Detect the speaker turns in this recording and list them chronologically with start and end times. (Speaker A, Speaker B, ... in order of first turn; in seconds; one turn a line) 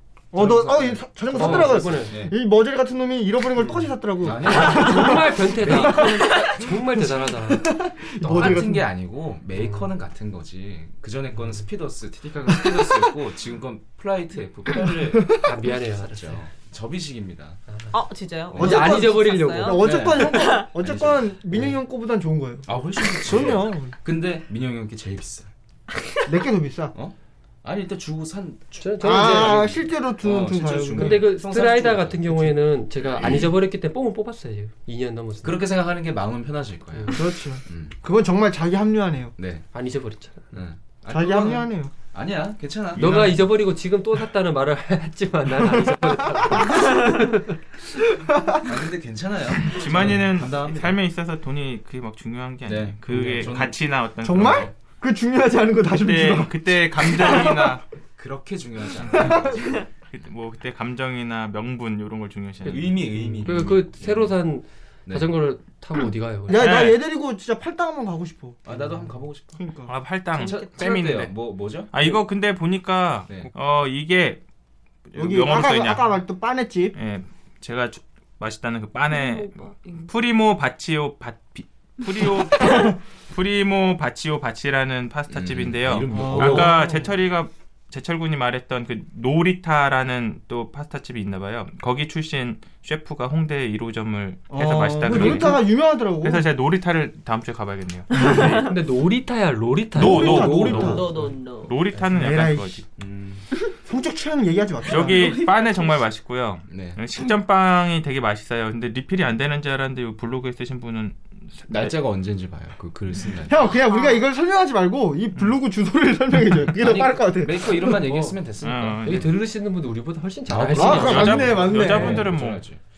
Speaker A: 0.3-2.4
Speaker B: 0.3-8.9
Speaker C: 1.3-2.2
Speaker C: 3.6-3.9
Speaker A: 4.2-6.4
Speaker C: 4.4-8.7
Speaker A: 8.2-17.6
Speaker C: 9.5-9.9
Speaker B: 12.5-13.1
Speaker B: 14.8-15.2
Speaker C: 15.4-16.4
Speaker C: 17.7-17.9
Speaker D: 17.9-20.6
Speaker A: 18.5-19.0
Speaker C: 18.5-19.9
Speaker B: 18.5-23.9
Speaker A: 19.8-21.3
Speaker C: 21.5-21.8
Speaker A: 22.6-25.5
Speaker B: 26.2-26.9
Speaker A: 26.9-33.5
Speaker C: 28.8-29.7
Speaker B: 29.0-31.4
Speaker C: 30.9-35.6
Speaker A: 35.4-38.0
Speaker B: 37.1-39.3
Speaker A: 39.4-39.7
Speaker C: 39.7-40.5
Speaker A: 40.5-43.3
Speaker B: 41.1-41.9
Speaker C: 43.0-47.5
Speaker E: 43.0-43.4
Speaker B: 48.0-48.6
Speaker A: 48.6-51.0
Speaker E: 49.7-54.7
Speaker A: 52.6-53.8
Speaker C: 53.1-53.5
Speaker B: 54.2-57.8
Speaker A: 54.4-54.7
Speaker E: 55.9-57.8
Speaker A: 58.2-59.8
Speaker B: 59.1-59.5
Speaker E: 60.1-63.1
Speaker A: 62.6-64.3
Speaker C: 63.3-66.7
Speaker A: 65.0-65.3
Speaker B: 66.5-68.7
Speaker E: 66.5-67.0
Speaker A: 68.6-69.6
Speaker B: 69.5-69.9
Speaker E: 69.9-71.4
Speaker A: 70.3-72.2
Speaker D: 70.4-70.7
Speaker E: 71.9-74.4
Speaker E: 75.1-76.1
Speaker B: 75.2-77.0
Speaker E: 76.9-98.7
Speaker D: 79.1-80.1
Speaker A: 85.3-86.8
Speaker B: 86.1-87.1
Speaker B: 94.5-96.5
Speaker A: 95.1-95.5
Speaker D: 98.1-98.7
Speaker C: 98.5-101.3
Speaker E: 99.9-101.0
Speaker B: 99.9-101.1
Speaker A: 100.1-101.1
Speaker D: 100.8-101.7
Speaker E: 101.6-102.8
Speaker B: 102.1-102.8
Speaker A: 103.0-103.5
Speaker B: 103.8-105.4
Speaker E: 104.9-111.9
Speaker D: 105.0-105.6
Speaker A: 106.7-107.0
Speaker A: 111.7-113.7
Speaker B: 113.5-118.0
Speaker D: 113.9-114.2
Speaker A: 116.7-119.3
Speaker C: 117.8-118.4
Speaker E: 118.6-119.3
Speaker C: 119.0-121.9
Speaker A: 120.5-122.8
Speaker B: 120.7-122.3
Speaker E: 120.8-122.6